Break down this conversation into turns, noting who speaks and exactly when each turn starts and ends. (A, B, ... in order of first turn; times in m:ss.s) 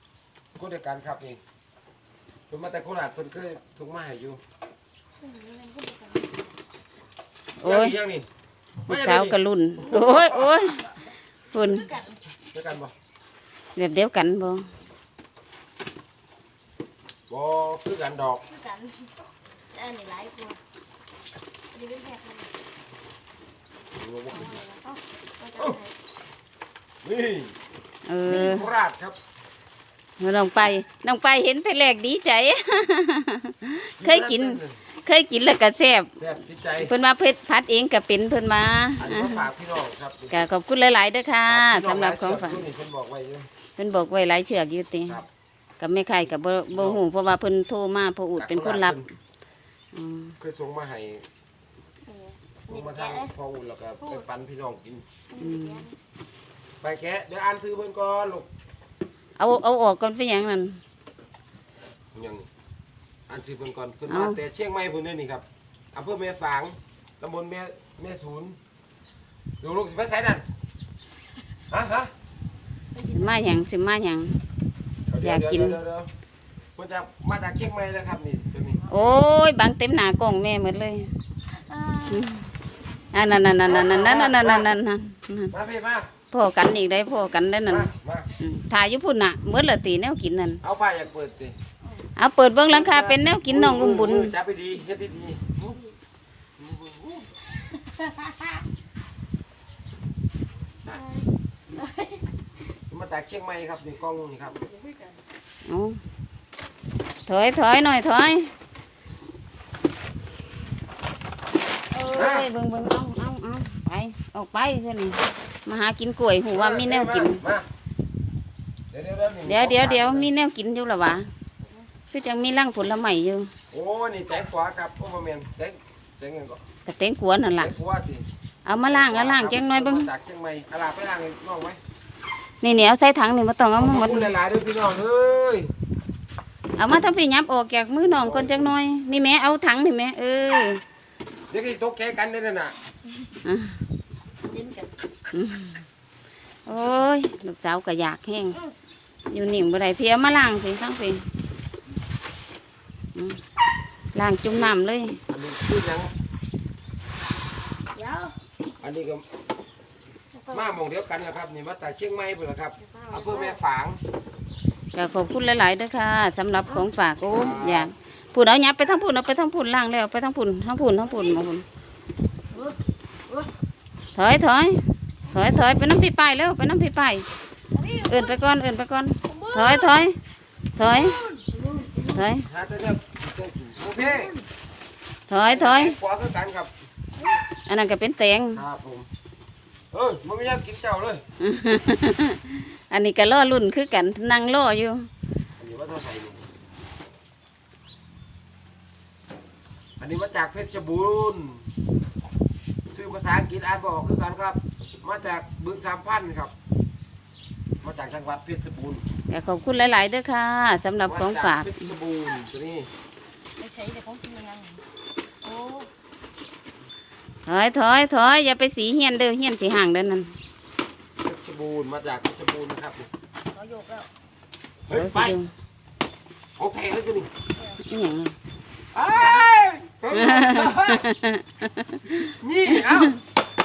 0:00.6-0:01.4 A
0:02.5-0:04.4 A
0:05.2-0:06.5 B
0:07.6-0:07.9 C
0:07.6-0:08.3 A
0:08.9-0:10.8 A
0:08.9-0:10.9 C
0:11.5-0:11.9 C
0:11.6-0:12.2 B
0:12.5-0:12.9 A
0:13.8-0:14.7 C
0:17.3-0:18.4 A
0:18.5-0:19.1 B
0:19.7-0:20.6 B
0:21.7-0:22.5 B
0:24.0-0:24.6 A
0:24.3-0:25.9 B
0:27.0-0:27.5 A
0:28.1-0:28.7 C
0:28.2-0:29.2 A
0:30.2-0:36.2 C
0:34.0-0:34.8 A
0:36.2-0:36.9 A
0:36.8-0:39.4 C
0:39.0-0:40.3 A
0:40.3-0:42.6 C
0:41.5-0:43.5 A
0:43.8-0:45.2 C
0:45.8-0:49.0 C
0:46.8-0:47.0 A
0:48.4-0:49.1 A
0:49.9-0:50.4 C
0:50.4-0:51.3 A
0:52.1-0:53.3 B
0:52.7-0:55.0 A
0:55.3-0:56.0 B
0:55.4-0:55.8 C
0:56.8-0:58.5 A
0:59.4-1:00.8 C
1:02.1-1:02.5 A
1:03.3-1:08.6 A
1:04.1-1:04.4 C
1:09.6-1:10.4 A
1:11.7-1:12.1 A
1:13.0-1:13.5 B
1:13.1-1:14.4 C
1:15.1-1:16.1 A
1:15.2-1:15.8 C
1:16.8-1:18.8 A
1:18.9-1:21.1 C
1:21.5-1:22.3 B
1:22.1-1:22.4 C
1:23.1-1:25.5 C
1:23.7-1:24.7 A
1:25.5-1:26.1 A
1:26.3-1:30.6 C
1:27.7-1:28.3 A
1:30.6-1:31.6 A
1:32.2-1:34.3 C
1:32.7-1:35.7 A
1:36.6-1:37.3 A
1:37.9-1:38.5 B
1:40.9-1:42.2 B
1:42.9-1:44.6 A
1:44.7-1:45.2 B
1:45.7-1:46.0 C
1:47.3-1:48.5 C
1:51.9-1:52.3 B
1:52.0-1:57.4 C
1:52.1-1:52.5 A
1:56.5-1:57.7 A
1:58.9-2:00.3 A
1:59.5-2:01.3 C
2:02.1-2:03.5 C
2:03.7-2:06.6 A
2:06.8-2:07.7 C
2:07.6-2:11.8 A
2:08.6-2:10.1 C
2:12.6-2:14.3 C
2:13.8-2:15.7 A
2:16.8-2:20.8 C
2:18.0-2:18.8 A
2:21.5-2:22.8 A
2:23.4-2:23.8 C
2:24.4-2:25.0 B
2:25.3-2:25.8 C
2:26.7-2:28.6 C
2:29.3-2:31.3 C
2:33.2-2:33.4 C
2:34.1-2:35.2 C
2:35.3-2:36.1 A
2:37.9-2:38.4 B
2:38.8-2:39.3 A
2:40.3-2:40.8 B
2:40.5-2:44.0 A
2:42.8-2:43.6 B
2:44.9-2:51.6 C
2:47.3-2:47.9 A
2:54.2-2:57.3 C
2:57.7-2:58.4 B
2:58.1-3:00.2 C
2:59.2-3:00.0 B
3:00.8-3:01.2 C
3:00.8-3:02.2 B
3:02.1-3:02.5 C
3:02.5-3:04.3 A
3:04.0-3:04.4 B
3:05.3-3:06.0 C
3:05.5-3:06.7 A
3:07.7-3:08.6 C
3:08.5-3:09.1 A
3:09.9-3:11.2 A
3:11.4-3:15.1 C
3:15.6-3:16.4 A
3:20.0-3:21.6 A
3:22.9-3:26.5 A
3:27.8-3:29.0 A
3:29.3-3:31.9 C
3:31.1-3:32.9 A
3:33.6-3:34.8 B
3:35.4-3:35.9 B
3:37.5-3:40.3 C
3:41.2-3:43.1 A
3:43.5-3:44.1 B
3:44.9-3:45.4 A
3:44.9-3:45.5 C
3:46.6-3:47.3 A
3:47.8-3:48.3 C
3:48.9-3:51.0 A
3:50.1-3:52.3 C
3:52.3-3:53.2 A